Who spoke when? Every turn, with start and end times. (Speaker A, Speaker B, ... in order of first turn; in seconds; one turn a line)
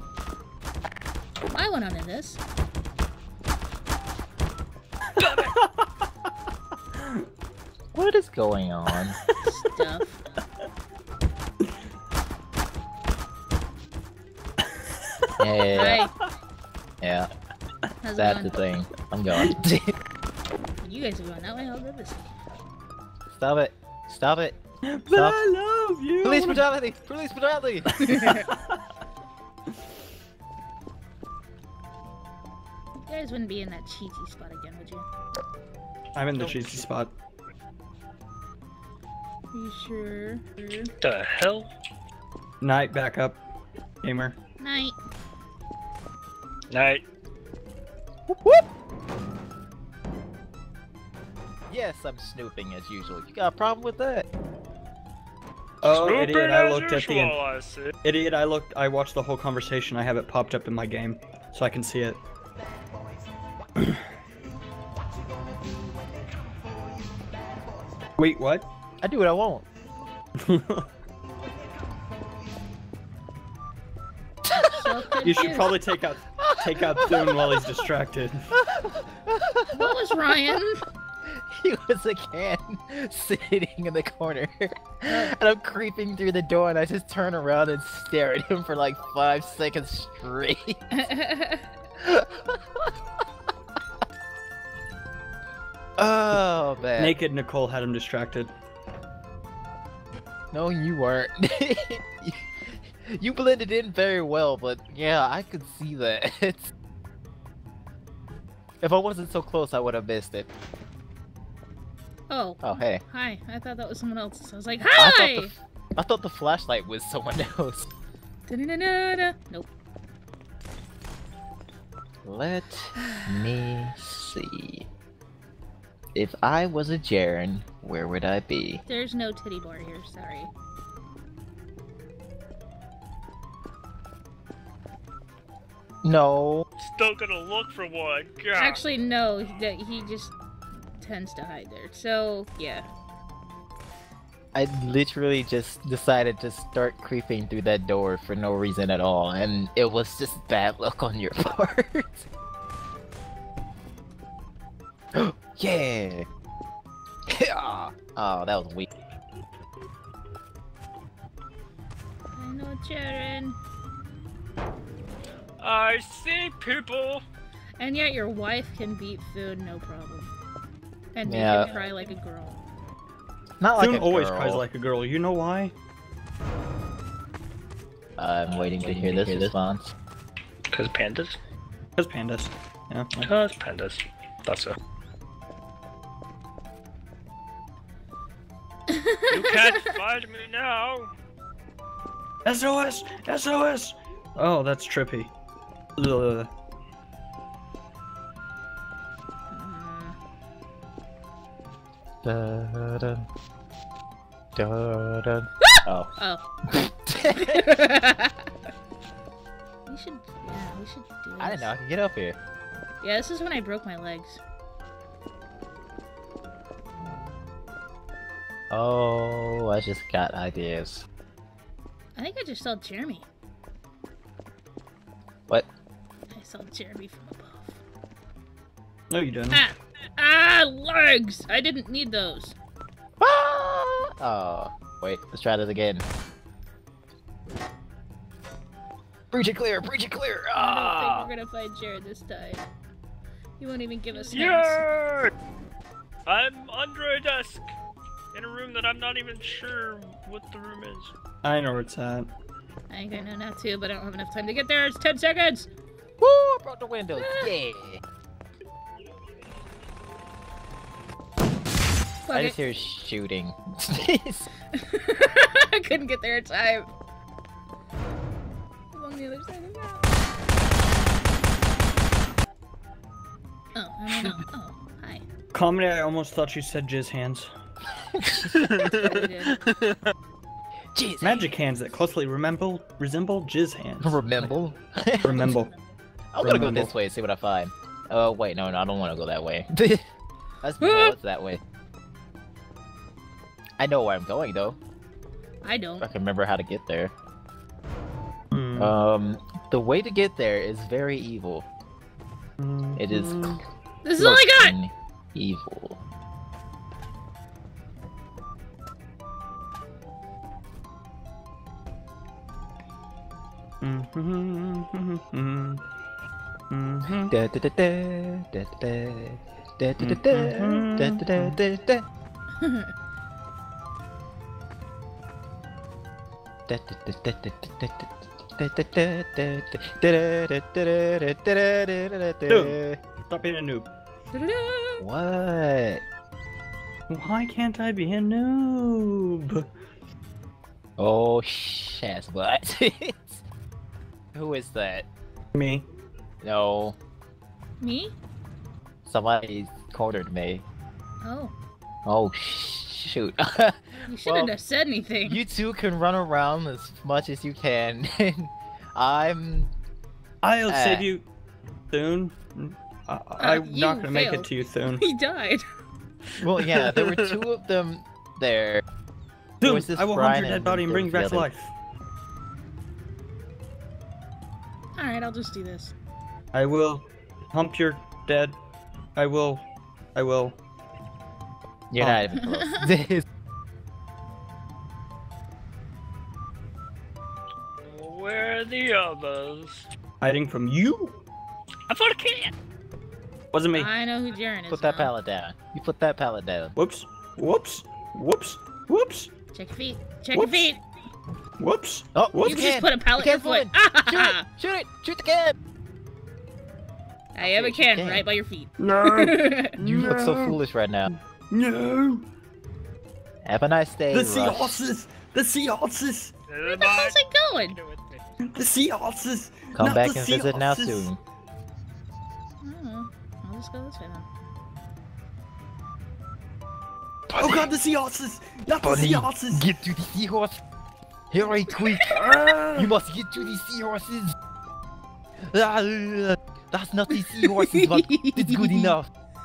Speaker A: 1.5-2.4
Speaker B: 5.2-5.6
Speaker C: 5.2-5.5
Speaker D: 7.9-9.2
Speaker A: 9.4-10.2
Speaker B: 15.2-16.0
Speaker D: 15.4-16.1
Speaker A: 15.7-16.1
Speaker D: 17.0-17.3
Speaker A: 18.0-18.6
Speaker D: 18.2-19.9
Speaker A: 20.8-22.3
Speaker D: 23.3-25.4
Speaker B: 24.8-26.6
Speaker D: 26.2-28.3
Speaker A: 28.0-28.4
Speaker B: 28.0-28.8
Speaker A: 33.0-35.1
Speaker B: 36.1-37.1
Speaker A: 39.5-40.9
Speaker C: 41.0-41.7
Speaker B: 42.6-43.4
Speaker B: 44.0-44.4
Speaker A: 44.6-45.0
Speaker C: 46.7-47.0
Speaker D: 48.3-48.6
Speaker D: 51.7-54.2
Speaker B: 55.8-57.4
Speaker C: 55.8-57.9
Speaker B: 58.0-62.2
Speaker B: 68.2-68.7
Speaker D: 69.0-69.7
Speaker B: 70.4-70.9
Speaker D: 74.4-75.3
Speaker A: 74.5-75.8
Speaker B: 75.2-78.5
Speaker D: 76.4-77.8
Speaker D: 78.5-80.5
Speaker A: 79.7-80.8
Speaker D: 81.2-91.0
Speaker A: 90.9-91.6
Speaker D: 92.0-92.9
Speaker D: 96.0-97.1
Speaker B: 97.0-98.5
Speaker D: 100.5-106.7
Speaker D: 108.8-110.5
Speaker A: 112.3-115.5
Speaker D: 112.6-113.0
Speaker D: 115.0-117.9
Speaker A: 118.5-119.7
Speaker D: 122.2-124.9
Speaker D: 126.1-128.8
Speaker A: 128.8-130.5
Speaker D: 136.0-136.7
Speaker C: 136.8-138.8
Speaker A: 138.6-140.3
Speaker A: 141.0-142.9
Speaker D: 144.5-152.3
Speaker D: 155.1-156.2
Speaker D: 157.3-158.8
Speaker A: 162.3-163.6
Speaker C: 165.6-167.2
Speaker A: 167.8-170.3
Speaker A: 171.1-172.6
Speaker D: 171.2-171.7
Speaker C: 171.7-172.0
Speaker D: 173.6-174.6
Speaker B: 173.8-175.7
Speaker D: 178.2-179.9
Speaker C: 178.6-179.5
Speaker C: 180.7-181.4
Speaker B: 182.0-183.1
Speaker C: 183.2-184.8
Speaker A: 188.9-189.6
Speaker C: 189.3-191.1
Speaker B: 192.4-195.3
Speaker B: 196.0-196.5
Speaker A: 199.5-200.2
Speaker D: 202.2-203.3
Speaker D: 204.6-206.1
Speaker A: 205.7-206.4
Speaker D: 206.7-207.7
Speaker A: 207.3-208.4
Speaker A: 209.8-211.7
Speaker D: 211.4-212.4
Speaker A: 213.0-214.4
Speaker D: 218.7-221.0
Speaker A: 222.1-223.3
Speaker A: 226.3-227.8
Speaker B: 229.1-229.6
Speaker A: 229.5-232.6
Speaker D: 233.2-236.0
Speaker D: 239.3-241.3
Speaker A: 240.6-242.6
Speaker A: 243.6-244.8
Speaker C: 244.3-245.3
Speaker C: 246.2-247.7
Speaker C: 248.3-251.1
Speaker B: 251.4-252.3
Speaker A: 252.9-255.7
Speaker D: 256.2-258.0
Speaker A: 257.1-257.5
Speaker A: 262.3-262.6
Speaker D: 262.3-264.5
Speaker A: 264.7-266.9
Speaker A: 268.9-270.1
Speaker A: 273.7-275.2
Speaker B: 275.5-277.5
Speaker D: 278.0-279.2
Speaker A: 278.9-279.6
Speaker D: 280.9-281.4
Speaker B: 281.2-284.5
Speaker D: 284.0-285.5
Speaker B: 285.2-285.7
Speaker A: 285.3-285.6
Speaker D: 286.3-290.1
Speaker B: 286.4-286.9
Speaker D: 290.6-291.6
Speaker A: 290.8-291.1
Speaker D: 293.8-294.8
Speaker A: 295.6-296.1
Speaker D: 296.0-297.1
Speaker B: 298.5-298.9
Speaker D: 298.7-301.7
Speaker B: 302.6-303.6
Speaker D: 302.9-303.6
Speaker A: 304.0-304.7
Speaker D: 304.2-306.0
Speaker B: 313.8-315.8
Speaker B: 316.7-317.3
Speaker D: 317.3-322.0
Speaker B: 320.0-321.6
Speaker A: 322.6-322.9
Speaker D: 326.7-333.0
Speaker B: 332.5-333.9
Speaker A: 334.3-335.1
Speaker D: 335.0-336.0
Speaker B: 337.1-339.7
Speaker D: 341.0-343.4
Speaker D: 344.3-345.1
Speaker B: 345.5-345.9
Speaker D: 346.4-346.9
Speaker A: 347.8-348.1
Speaker D: 349.1-350.6
Speaker A: 351.2-351.5
Speaker D: 352.1-354.5
Speaker A: 354.0-355.4
Speaker D: 355.2-359.7
Speaker B: 360.4-361.2
Speaker D: 360.7-361.1
Speaker B: 361.9-365.0
Speaker A: 363.4-365.6
Speaker D: 366.4-368.8
Speaker C: 366.9-367.2
Speaker B: 369.6-371.7
Speaker D: 369.6-371.5
Speaker A: 374.9-375.9
Speaker B: 376.5-378.5
Speaker B: 379.1-379.6
Speaker B: 380.1-380.6
Speaker D: 381.9-383.2
Speaker B: 382.0-382.3
Speaker A: 382.4-382.9
Speaker C: 387.8-389.9
Speaker B: 390.2-391.2
Speaker C: 391.9-392.5
Speaker B: 393.5-393.9
Speaker A: 393.7-395.1
Speaker D: 394.7-396.7
Speaker B: 396.8-399.3
Speaker A: 399.5-400.8
Speaker B: 400.3-400.8
Speaker B: 401.6-402.7
Speaker D: 402.1-405.6
Speaker A: 402.4-404.4
Speaker A: 407.3-409.8
Speaker D: 407.4-408.2
Speaker B: 408.8-412.2
Speaker D: 409.8-411.1
Speaker D: 413.4-414.8
Speaker B: 414.1-416.3
Speaker C: 416.5-418.2
Speaker A: 416.6-417.8
Speaker B: 418.4-421.1
Speaker D: 419.7-421.2
Speaker A: 422.6-424.3
Speaker D: 427.3-427.7
Speaker B: 427.4-429.7
Speaker D: 428.8-430.6
Speaker D: 431.3-432.2
Speaker B: 432.1-432.9
Speaker D: 432.8-434.3
Speaker D: 435.4-439.1
Speaker A: 437.4-438.9